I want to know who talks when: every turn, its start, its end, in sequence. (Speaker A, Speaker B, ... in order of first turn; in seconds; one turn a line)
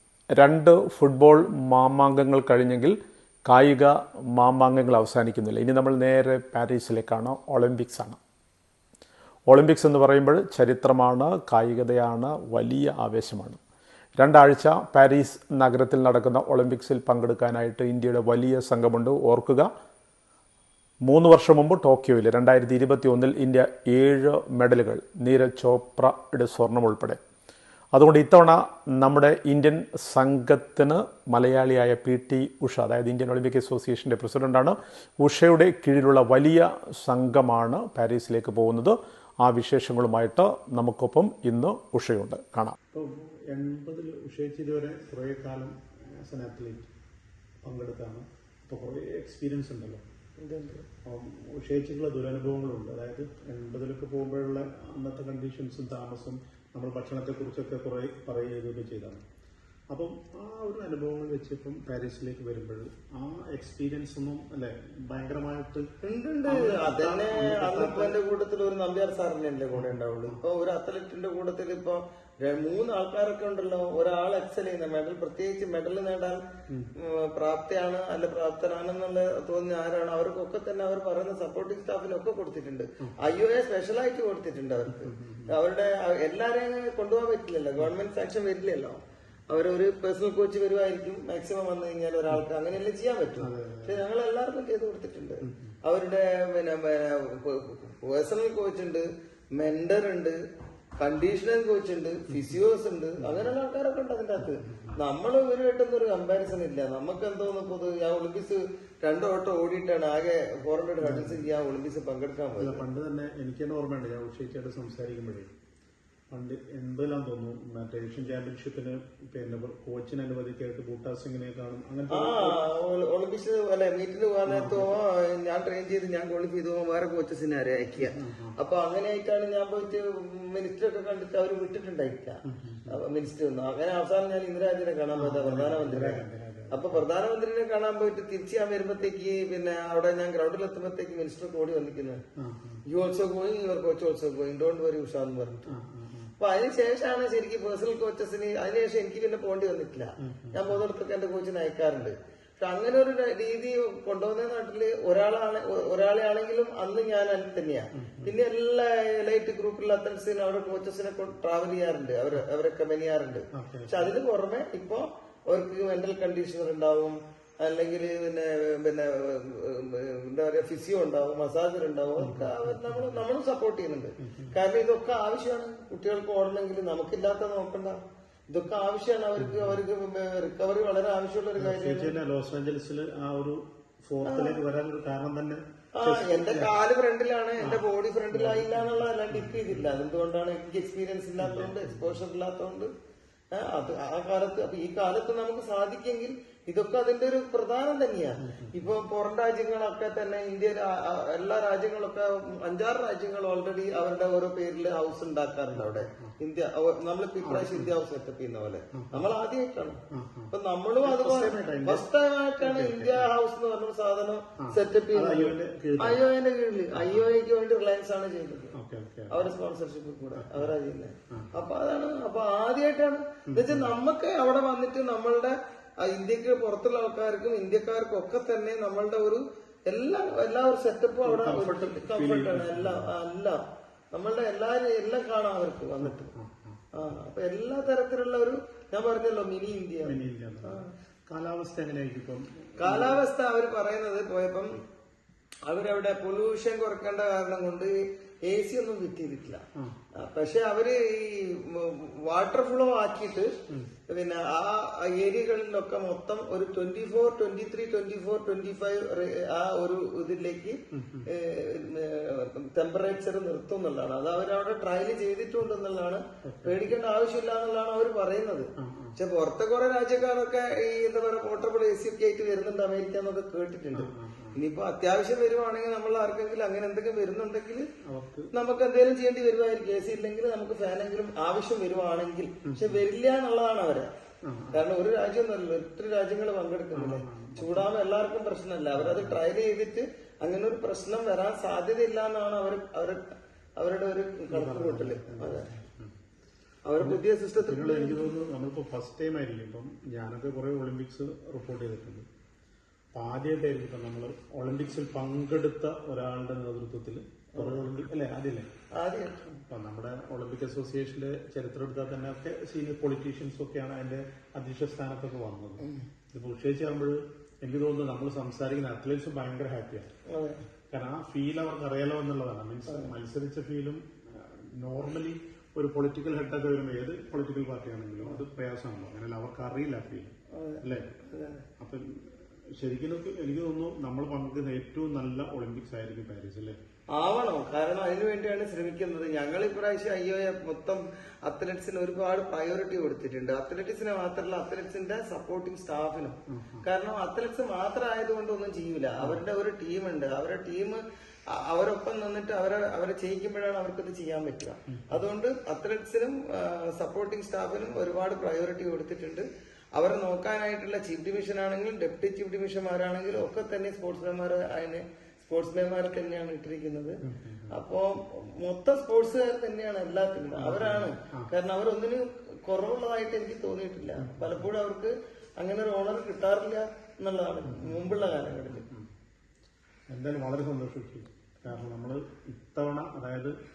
Speaker A: 0.3-8.2
Speaker A: 9.5-13.6
Speaker A: 14.2-19.7
Speaker A: 21.1-27.2
Speaker A: 27.9-42.7
Speaker B: 42.9-46.9
Speaker B: 47.6-50.0
Speaker C: 50.4-50.9
Speaker B: 51.0-59.2
Speaker B: 59.9-65.9
Speaker C: 66.0-76.4
Speaker B: 66.5-68.2
Speaker B: 69.7-70.4
Speaker C: 77.0-100.4
Speaker B: 84.9-85.5
Speaker B: 93.4-94.0
Speaker B: 95.4-95.8
Speaker C: 101.0-112.8
Speaker B: 102.3-102.6
Speaker B: 103.2-103.5
Speaker B: 104.6-105.0
Speaker B: 111.0-111.5
Speaker B: 112.5-115.5
Speaker B: 116.3-122.6
Speaker C: 122.1-132.3
Speaker B: 124.5-124.9
Speaker B: 128.0-128.5
Speaker B: 132.4-133.0
Speaker C: 132.9-142.2
Speaker B: 135.1-137.1
Speaker B: 142.4-142.8
Speaker C: 142.8-145.7
Speaker B: 145.6-146.3
Speaker C: 146.4-178.0
Speaker B: 150.2-150.8
Speaker B: 157.9-158.3
Speaker B: 163.5-164.1
Speaker B: 172.2-173.2
Speaker B: 174.2-174.5
Speaker C: 178.5-182.1
Speaker B: 179.4-179.8
Speaker B: 181.6-186.7
Speaker C: 184.2-184.6
Speaker C: 185.9-192.9
Speaker B: 187.6-189.9
Speaker B: 191.4-192.2
Speaker C: 193.5-218.8
Speaker B: 198.4-198.9
Speaker B: 205.7-206.3
Speaker B: 207.4-207.9
Speaker B: 208.9-209.3
Speaker B: 210.1-213.3
Speaker B: 214.6-216.2
Speaker B: 216.9-217.3
Speaker B: 218.7-219.5
Speaker C: 219.3-233.6
Speaker B: 220.3-220.7
Speaker B: 223.5-223.9
Speaker B: 231.2-233.1
Speaker C: 234.1-236.3
Speaker B: 236.0-236.8
Speaker C: 236.9-240.9
Speaker B: 240.0-243.2
Speaker C: 242.8-244.8
Speaker C: 245.7-249.6
Speaker C: 250.2-253.5
Speaker C: 254.1-277.9
Speaker B: 260.9-261.3
Speaker B: 266.4-266.8
Speaker B: 268.8-269.1
Speaker B: 273.9-274.6
Speaker B: 278.1-278.5
Speaker C: 278.5-284.1
Speaker B: 282.6-283.0
Speaker B: 284.4-284.8
Speaker C: 284.7-295.7
Speaker B: 286.9-287.9
Speaker B: 288.9-289.4
Speaker B: 294.5-296.1
Speaker C: 296.8-298.3
Speaker B: 297.0-302.2
Speaker B: 303.1-308.7
Speaker C: 307.5-307.8
Speaker C: 308.9-309.6
Speaker B: 309.7-320.1
Speaker C: 320.3-320.6
Speaker B: 320.9-331.1
Speaker C: 322.9-323.1
Speaker C: 330.5-331.6
Speaker B: 331.8-336.8
Speaker C: 337.1-378.9
Speaker B: 346.5-346.9
Speaker B: 354.9-355.2
Speaker B: 367.2-367.8
Speaker B: 370.6-371.5
Speaker B: 374.2-374.6
Speaker B: 377.6-379.1
Speaker B: 380.1-383.5